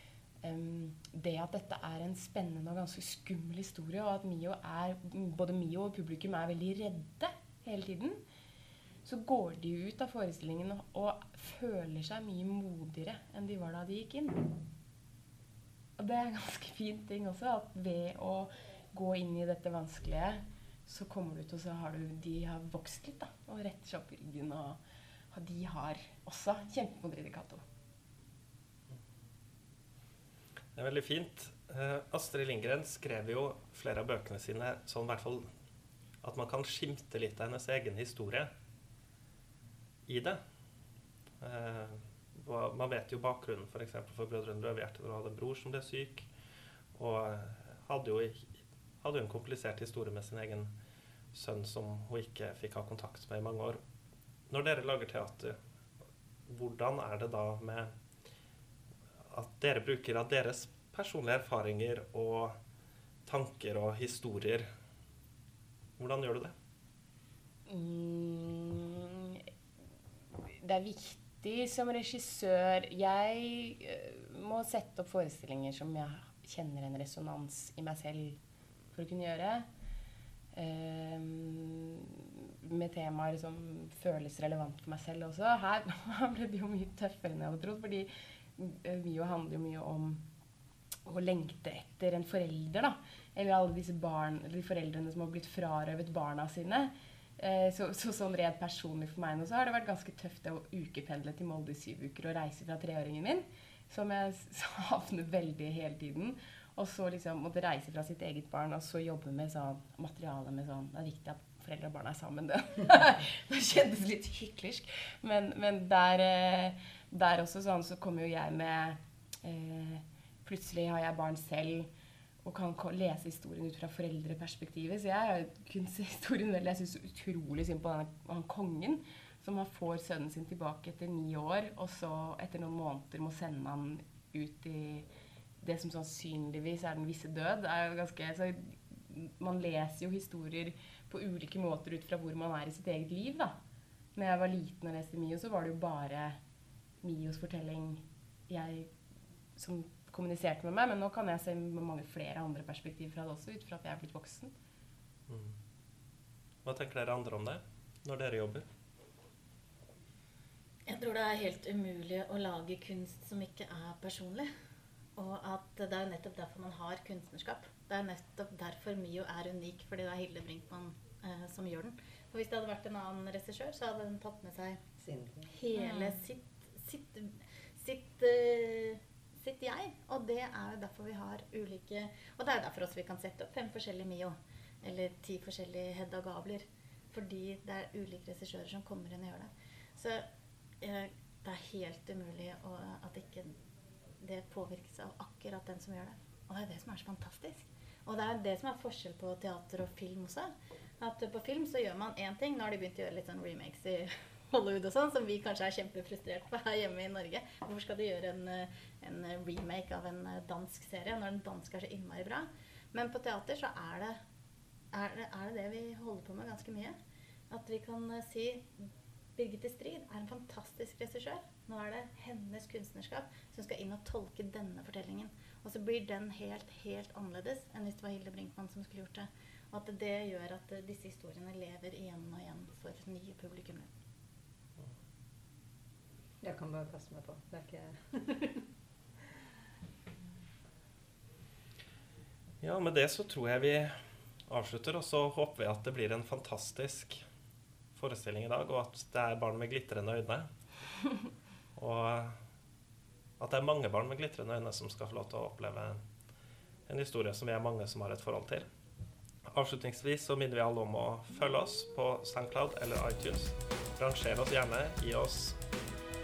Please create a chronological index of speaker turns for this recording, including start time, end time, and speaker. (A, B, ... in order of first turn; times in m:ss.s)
0:00.4-0:08.2 A
0:09.0-0:14.6 A
0:16.0-0:24.8 A
0:25.3-0:27.6 A
0:30.8-0:35.4 B
0:36.2-0:38.5 B
0:40.1-0:40.4 B
0:41.4-0:46.3 B
0:46.9-0:48.5 B
0:49.0-0:50.7 B
0:51.3-0:53.8 B
0:54.5-0:55.6 B
0:56.5-0:57.9 B
0:59.3-1:02.5 B
1:03.2-1:04.6 B
1:06.0-1:06.5 B
1:07.7-1:09.4 A
1:10.4-1:18.4 A
1:18.9-1:19.6 A
1:20.5-1:30.2 A
1:31.0-2:01.9 A
2:02.4-2:15.1 A
2:15.6-2:23.5 A
2:24.1-2:26.4 A
2:27.0-2:28.9 A
2:29.6-2:34.5 A
2:35.3-2:35.5 B
2:36.6-2:38.6 B
2:40.9-2:44.5 C
2:45.2-2:54.8 C
2:55.0-2:55.5 D
2:55.5-3:10.2 C
2:55.8-2:56.2 A
3:10.8-3:13.5 C
3:14.2-3:20.5 C
3:21.0-3:34.2 C
3:34.9-3:36.9 C
3:37.5-3:38.7 C
3:39.4-3:53.9 C
3:56.4-3:58.6 D
4:02.6-4:03.9 B
4:04.5-4:07.2 B
4:07.9-4:10.5 B
4:11.8-4:12.4 B
4:13.4-4:16.0 B
4:16.9-4:18.7 B
4:19.5-4:25.6 B